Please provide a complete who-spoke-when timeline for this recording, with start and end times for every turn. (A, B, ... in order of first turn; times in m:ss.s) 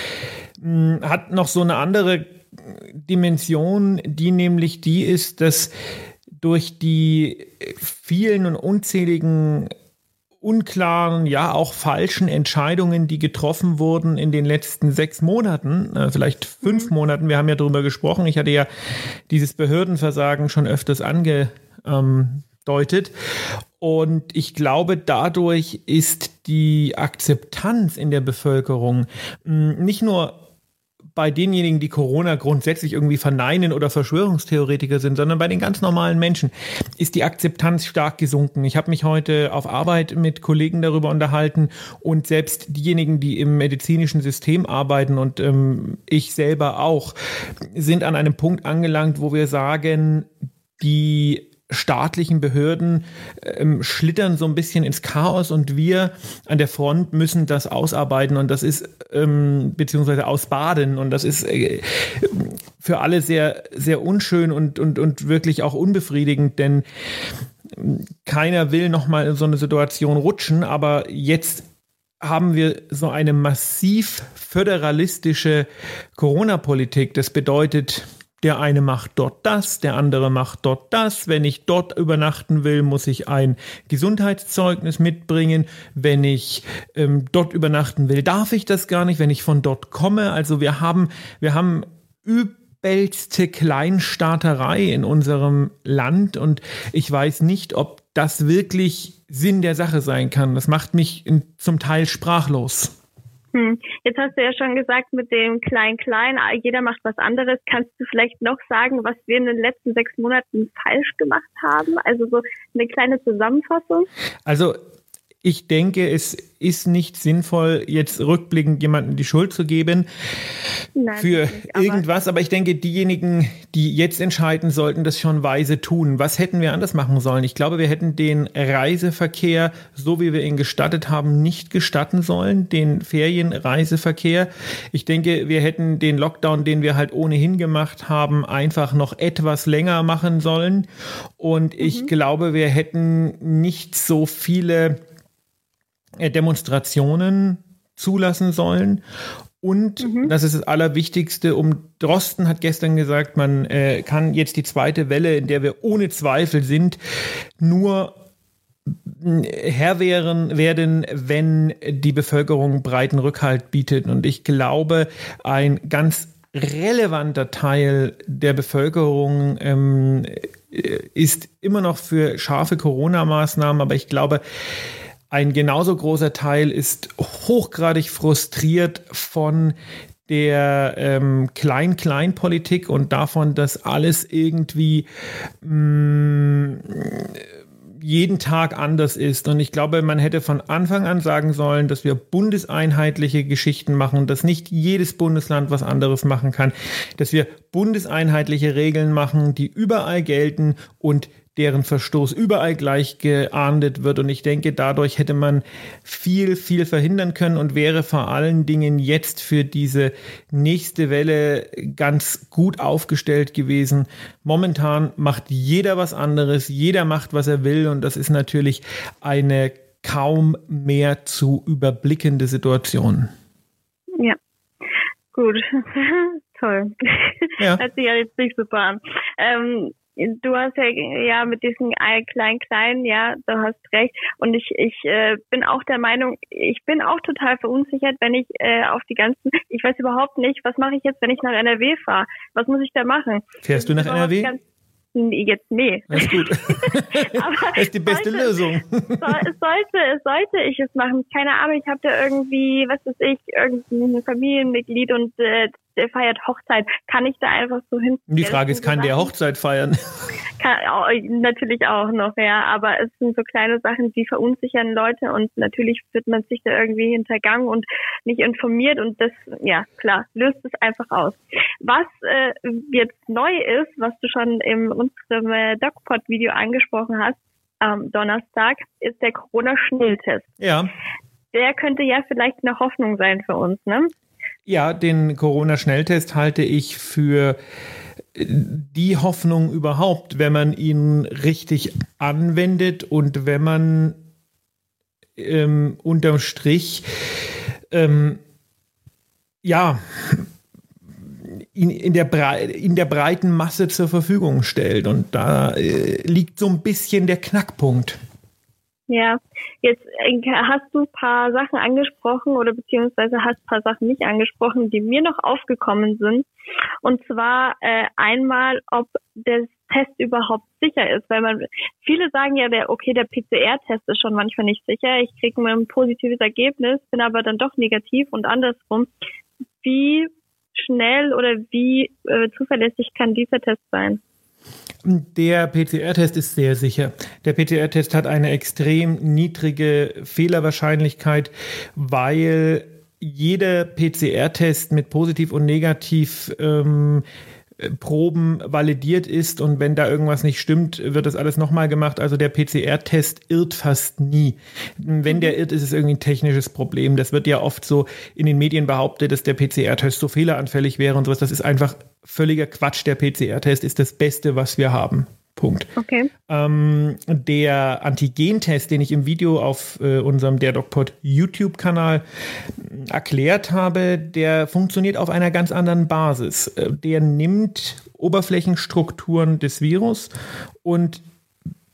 0:00.6-0:05.7 A
0:06.4-0:09.7 A
0:10.4-0:18.7 A
0:16.6-0:16.9 B
0:19.3-0:23.1 A
0:23.8-0:30.3 A
0:31.1-0:47.1 A
0:47.7-1:06.8 A
1:07.7-1:11.6 A
1:12.2-1:42.9 A
1:43.5-1:54.1 B
1:54.4-1:54.8 A
1:55.4-2:00.0 A
2:01.0-2:02.0 B
2:01.2-2:20.8 A
2:21.4-2:25.0 A
2:21.8-2:22.1 B
2:26.2-2:29.0 A
2:29.6-2:37.0 A
2:30.0-2:30.3 B
2:37.6-2:38.1 A
2:39.0-2:54.4 A
2:55.3-2:59.7 A
3:00.3-3:05.0 A
3:05.6-3:07.4 A
3:08.0-3:43.3 A
3:45.3-4:04.6 B
4:03.6-4:04.5 A
4:05.1-4:08.6 B
4:06.1-4:09.3 A
4:09.2-4:19.3 B
4:18.3-4:20.0 A
4:20.6-4:40.5 B
4:40.6-4:40.9 A
4:41.5-4:44.1 B
4:44.6-4:47.6 A
4:48.3-4:54.1 A
4:55.4-4:57.0 A
4:57.9-4:58.4 A
4:59.6-5:00.4 A
5:01.6-5:08.2 A
5:09.1-5:16.5 B
5:17.0-5:29.1 B
5:29.8-5:34.2 B
5:35.0-5:47.2 A
5:47.8-6:05.9 A
5:55.3-5:55.5 B
6:06.0-6:06.3 B
6:06.5-6:12.2 A
6:12.8-6:20.3 A
6:20.8-6:21.2 A